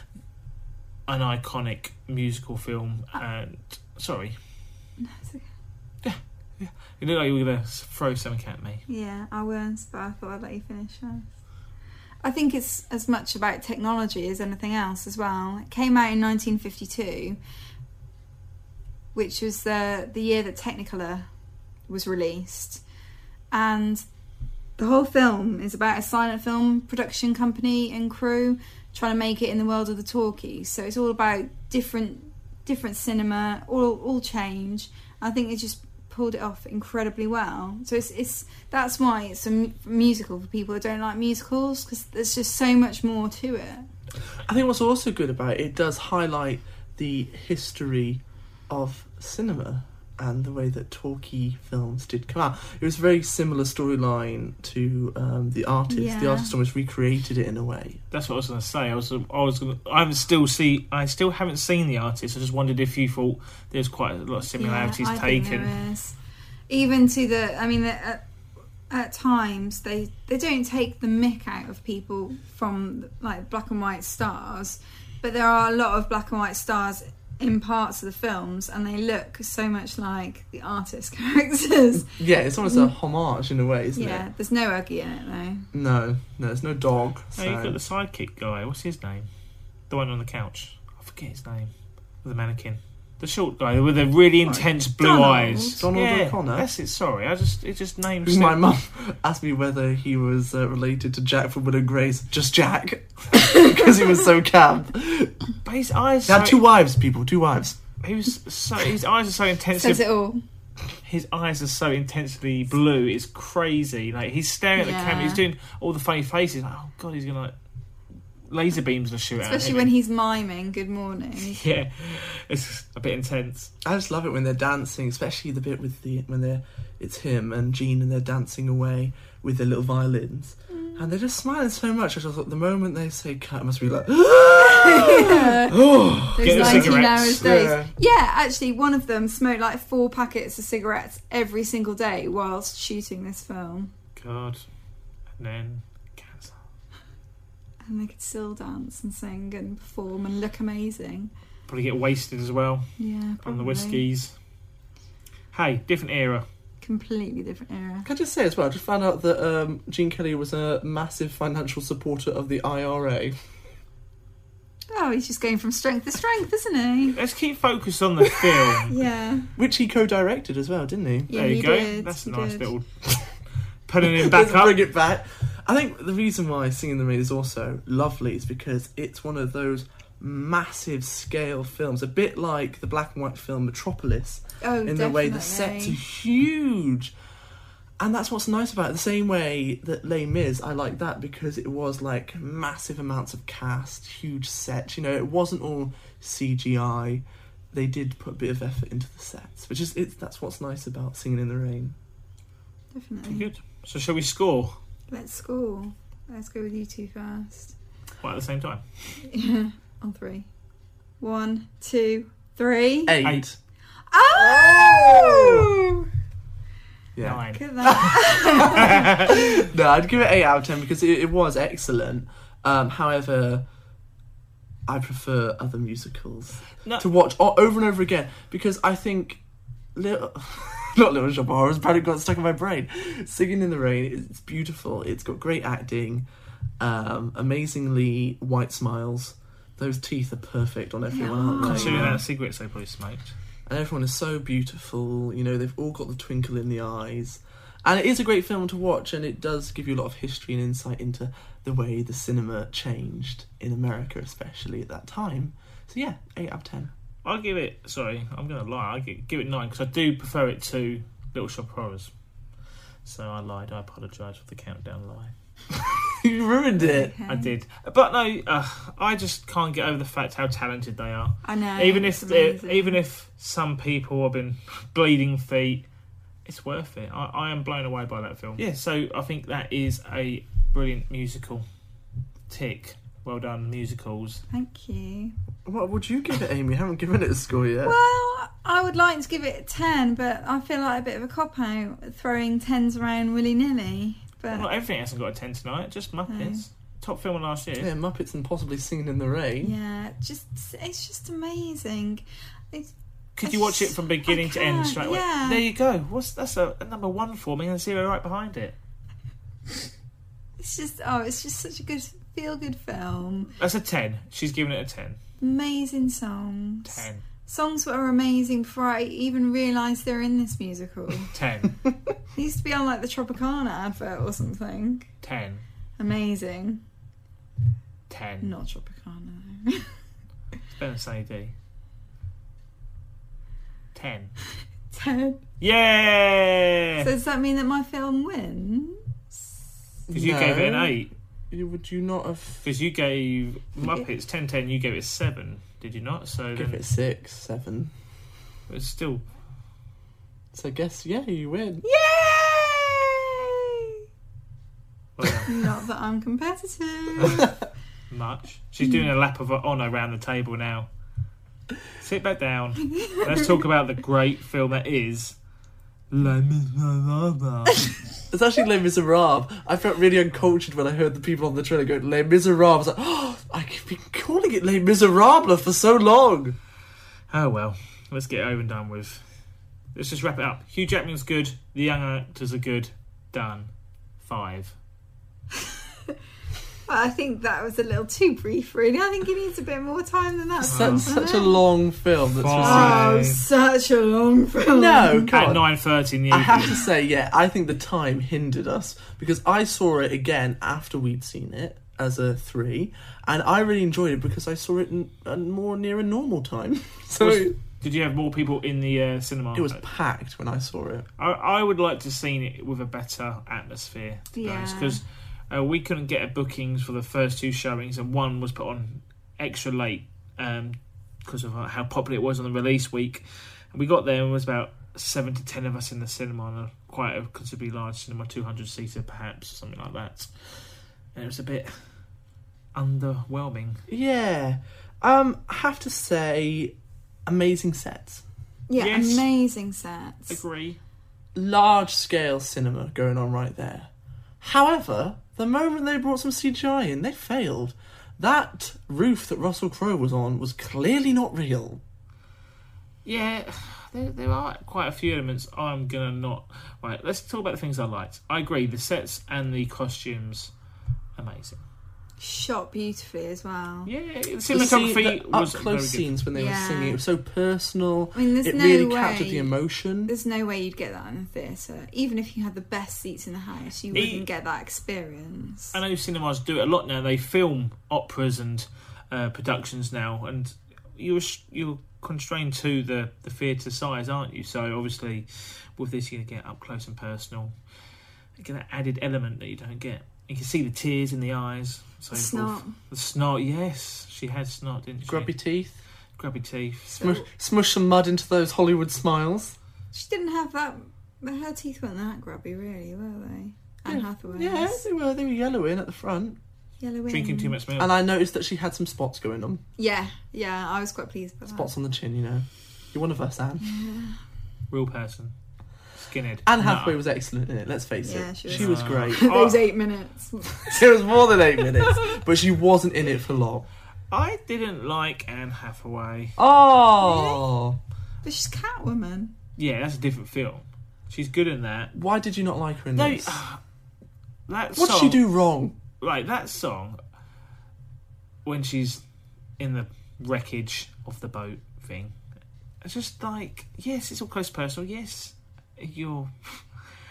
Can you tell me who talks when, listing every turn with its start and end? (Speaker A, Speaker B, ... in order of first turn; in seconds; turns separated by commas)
Speaker A: 1.1-4.3, Speaker B: 5.0-5.5, Speaker A: 6.0-8.8, Speaker B: 8.9-11.2, Speaker B: 12.2-17.4, Speaker B: 19.1-21.3, Speaker B: 21.9-22.8, Speaker B: 23.5-24.0, Speaker B: 24.8-43.9, Speaker C: 44.5-58.0, Speaker B: 55.9-56.5, Speaker A: 58.1-65.8, Speaker B: 64.5-66.2, Speaker B: 66.7-68.2, Speaker B: 68.9-82.9, Speaker C: 82.0-84.2, Speaker B: 84.0-85.7, Speaker C: 85.7-87.8, Speaker A: 87.3-89.3, Speaker A: 89.9-91.7, Speaker A: 92.2-98.7, Speaker B: 94.4-95.8, Speaker C: 95.8-96.7, Speaker C: 98.2-105.3, Speaker A: 105.6-106.6, Speaker C: 106.3-107.8, Speaker A: 108.0-110.0, Speaker B: 109.8-110.4, Speaker A: 111.0-117.5, Speaker B: 114.8-115.4, Speaker A: 118.5-119.9, Speaker B: 119.4-121.6, Speaker A: 121.4-123.7, Speaker C: 123.8-137.9, Speaker B: 130.7-131.0, Speaker B: 134.6-135.8, Speaker B: 136.3-143.9, Speaker A: 136.4-137.5, Speaker A: 144.2-144.6, Speaker A: 145.4-146.6, Speaker B: 147.8-151.3, Speaker A: 151.7-154.3, Speaker B: 153.0-154.0, Speaker A: 155.5-156.4, Speaker B: 156.8-158.1, Speaker C: 158.0-163.4, Speaker B: 164.9-167.2, Speaker A: 167.1-169.0, Speaker B: 168.9-169.5, Speaker C: 169.6-171.3, Speaker B: 171.3-172.7, Speaker A: 171.3-174.8, Speaker C: 174.0-187.1, Speaker B: 184.6-186.0, Speaker C: 188.0-201.9, Speaker B: 202.9-203.5, Speaker A: 203.2-204.8, Speaker B: 205.1-207.7, Speaker A: 208.2-208.8, Speaker B: 209.2-210.5, Speaker B: 211.2-213.2, Speaker C: 213.1-213.6, Speaker B: 214.1-216.1, Speaker C: 214.3-215.7, Speaker C: 217.2-223.7, Speaker A: 217.2-219.6, Speaker B: 217.5-219.4, Speaker C: 224.9-229.4, Speaker C: 229.9-236.2, Speaker C: 236.8-242.2, Speaker B: 241.1-242.2, Speaker A: 241.6-243.3, Speaker C: 243.7-256.9, Speaker A: 257.2-262.1, Speaker A: 263.0-265.3, Speaker C: 265.7-267.1, Speaker B: 266.8-267.5, Speaker A: 267.2-275.9, Speaker B: 271.4-273.0, Speaker A: 276.4-281.6, Speaker A: 282.5-284.4, Speaker B: 284.5-285.3, Speaker C: 285.6-287.9, Speaker B: 287.8-294.7, Speaker A: 294.5-297.9, Speaker B: 296.3-296.6, Speaker C: 297.8-299.7, Speaker B: 299.6-305.6, Speaker A: 303.4-308.7, Speaker B: 310.6-313.5, Speaker A: 313.6-315.2, Speaker B: 315.4-321.3, Speaker A: 316.8-317.2, Speaker A: 321.3-321.8, Speaker B: 322.3-325.1, Speaker A: 325.2-325.6, Speaker B: 326.0-326.8, Speaker A: 328.1-328.5, Speaker B: 328.4-329.9, Speaker A: 330.7-331.5, Speaker A: 333.9-334.3, Speaker B: 334.9-335.4, Speaker A: 335.6-337.1, Speaker B: 337.0-339.0, Speaker C: 340.1-341.0, Speaker A: 340.1-341.1, Speaker C: 341.5-342.6, Speaker A: 342.6-346.8, Speaker C: 346.5-347.9, Speaker A: 348.7-349.2, Speaker C: 350.5-351.8, Speaker B: 351.8-353.9, Speaker A: 355.2-355.5, Speaker B: 355.4-357.5, Speaker C: 357.2-357.5, Speaker A: 358.1-360.9, Speaker A: 362.0-365.4, Speaker B: 362.9-363.5, Speaker A: 366.1-368.0, Speaker C: 368.3-376.6, Speaker A: 377.3-379.2, Speaker A: 379.9-383.7, Speaker A: 384.2-384.7, Speaker B: 386.9-391.6, Speaker C: 390.6-393.2, Speaker A: 390.7-391.1, Speaker A: 392.4-393.4, Speaker B: 392.6-395.3, Speaker C: 394.7-395.7, Speaker A: 395.3-396.9, Speaker C: 396.3-407.6, Speaker A: 407.2-409.8, Speaker C: 409.5-411.1, Speaker A: 411.2-430.4, Speaker B: 414.3-415.0, Speaker A: 431.1-431.7, Speaker A: 432.7-433.8, Speaker C: 433.9-436.7, Speaker C: 437.3-438.2, Speaker B: 438.7-440.4, Speaker A: 438.8-439.3, Speaker A: 440.3-440.8, Speaker C: 441.3-443.9, Speaker C: 444.4-451.8, Speaker A: 453.0-460.5, Speaker A: 461.2-461.6, Speaker B: 462.2-463.9, Speaker A: 463.9-466.1, Speaker C: 464.5-470.1, Speaker B: 466.3-467.0, Speaker B: 468.1-469.5, Speaker B: 470.1-475.8, Speaker A: 473.9-474.2, Speaker A: 475.7-487.5, Speaker A: 488.4-495.3, Speaker B: 492.1-492.7, Speaker C: 495.0-495.8, Speaker A: 496.2-497.0, Speaker B: 496.9-497.2, Speaker C: 497.0-499.6, Speaker B: 499.9-504.9, Speaker C: 503.9-506.4, Speaker B: 506.8-507.6, Speaker A: 507.1-507.9, Speaker C: 507.8-509.6, Speaker B: 509.8-511.7, Speaker C: 511.5-513.6, Speaker B: 513.6-514.2, Speaker A: 514.7-515.3, Speaker A: 515.9-517.0, Speaker C: 516.5-519.5, Speaker B: 518.0-520.8, Speaker A: 518.5-519.6, Speaker C: 520.6-523.7, Speaker A: 524.1-526.4, Speaker C: 526.4-527.8, Speaker B: 527.0-527.4, Speaker B: 528.2-529.3, Speaker A: 529.6-531.9, Speaker C: 531.9-533.4, Speaker A: 533.0-533.6, Speaker A: 534.5-535.2, Speaker C: 534.7-535.8, Speaker A: 536.0-537.0, Speaker A: 538.4-539.0, Speaker A: 539.6-542.1, Speaker A: 542.8-546.8